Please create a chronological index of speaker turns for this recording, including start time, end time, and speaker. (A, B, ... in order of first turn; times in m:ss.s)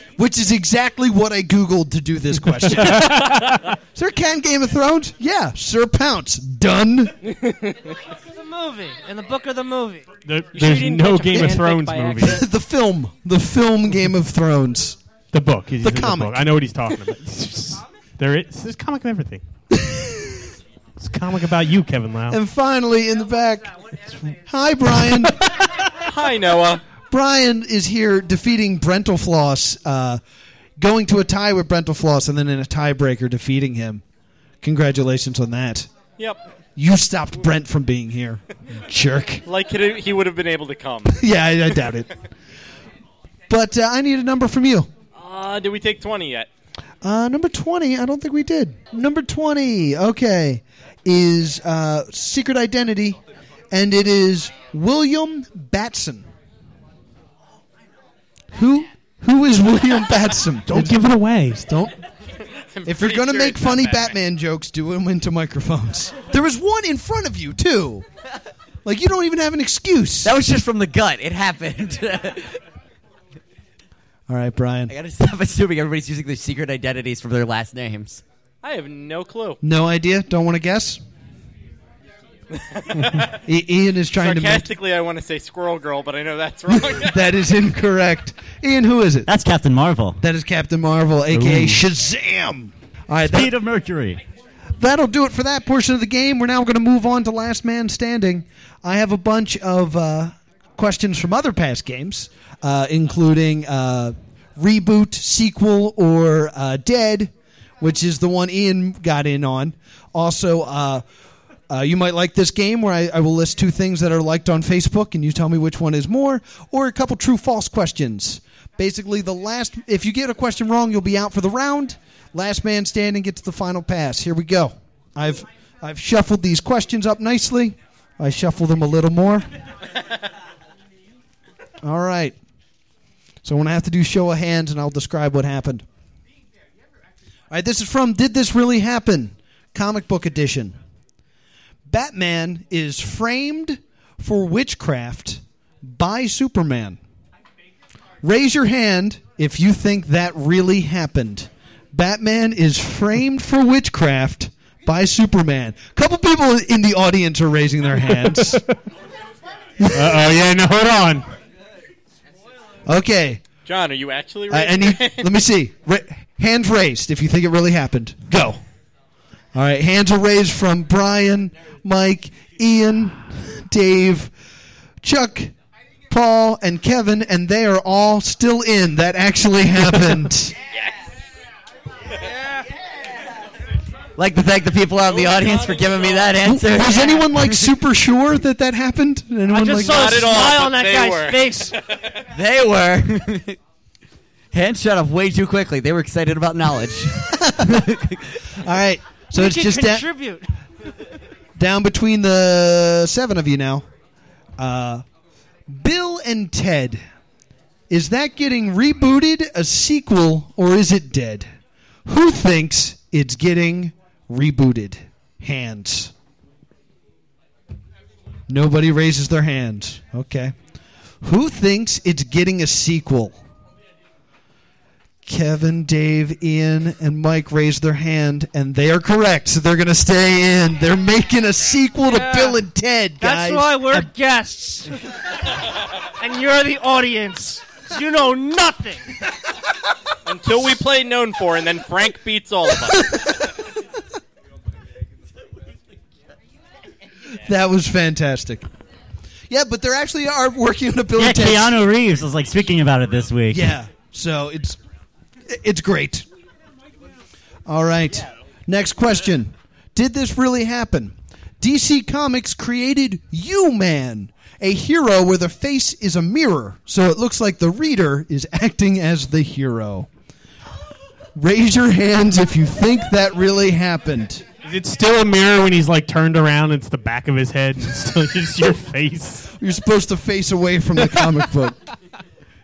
0:00.2-0:07.2 A
0:02.8-0:03.6 B
0:08.3-0:10.1 C
0:10.2-0:12.4 B
0:10.5-0:12.4 D
0:12.2-0:15.0 A
0:15.3-0:19.4 B
0:15.8-0:16.4 A
0:19.7-0:20.4 A
0:21.0-0:22.4 B
0:22.3-0:23.7 A
0:24.4-0:25.4 A
0:25.1-0:25.5 B
0:26.0-0:26.8 D
0:27.1-0:30.2 A
0:30.8-0:34.0 A
0:34.6-0:35.9 A
0:36.8-0:39.4 A
0:39.4-0:41.2 D
0:41.1-0:42.1 A
0:43.5-0:44.9 A
0:45.1-0:46.5 D
0:47.0-0:53.2 A
0:53.7-0:56.2 A
0:58.5-1:01.0 A
1:00.7-1:01.6 B
1:01.6-1:02.0 A
1:02.7-1:04.2 D
1:02.8-1:08.0 A
1:08.8-1:10.3 A
1:10.2-1:12.6 E
1:14.3-1:14.9 A
1:14.9-1:18.2 E
1:18.6-1:19.6 D
1:19.6-1:21.0 A
1:22.6-1:23.3 D
1:23.4-1:24.7 A
1:24.2-1:27.2 D
1:26.7-1:29.3 A
1:29.3-1:30.2 F
1:30.2-1:33.5 A
1:31.3-1:31.8 B
1:33.3-1:34.2 F
1:34.8-1:51.0 A
1:51.7-2:09.5 A
2:11.8-2:12.4 A
2:13.4-2:15.8 A
2:17.5-2:20.8 A
2:21.9-2:27.0 A
2:28.2-2:38.6 A
2:38.1-2:38.6 B
2:39.8-2:40.1 A
2:39.9-2:41.2 B
2:42.9-2:43.4 A
2:43.6-2:45.3 D
2:44.5-2:48.6 A
2:49.5-2:54.3 A
2:55.0-2:55.5 A
2:56.1-3:00.5 A
3:04.2-3:07.7 E
3:05.0-3:06.3 D
3:06.4-3:10.3 A
3:09.5-3:11.7 C
3:09.8-3:11.7 D
3:12.3-3:13.6 E
3:14.5-3:18.2 E
3:17.3-3:17.8 A
3:18.6-3:20.1 A
3:19.3-3:20.5 C
3:21.6-3:23.8 A
3:24.6-3:25.0 A
3:25.7-3:27.0 A
3:27.9-3:31.5 A
3:32.0-3:36.1 A
3:38.5-3:40.5 A
3:41.2-3:43.4 A
3:45.2-3:54.1 A
3:52.0-3:52.6 C
3:53.2-3:55.0 C
3:56.2-3:59.1 C
4:00.2-4:03.4 D
4:07.3-4:08.6 A
4:09.5-4:11.8 A
4:11.2-4:13.7 F
4:13.5-4:14.8 A
4:15.5-4:16.2 A
4:17.7-4:30.1 A
4:31.4-4:34.4 A
4:34.6-4:39.5 B
4:39.5-4:41.8 A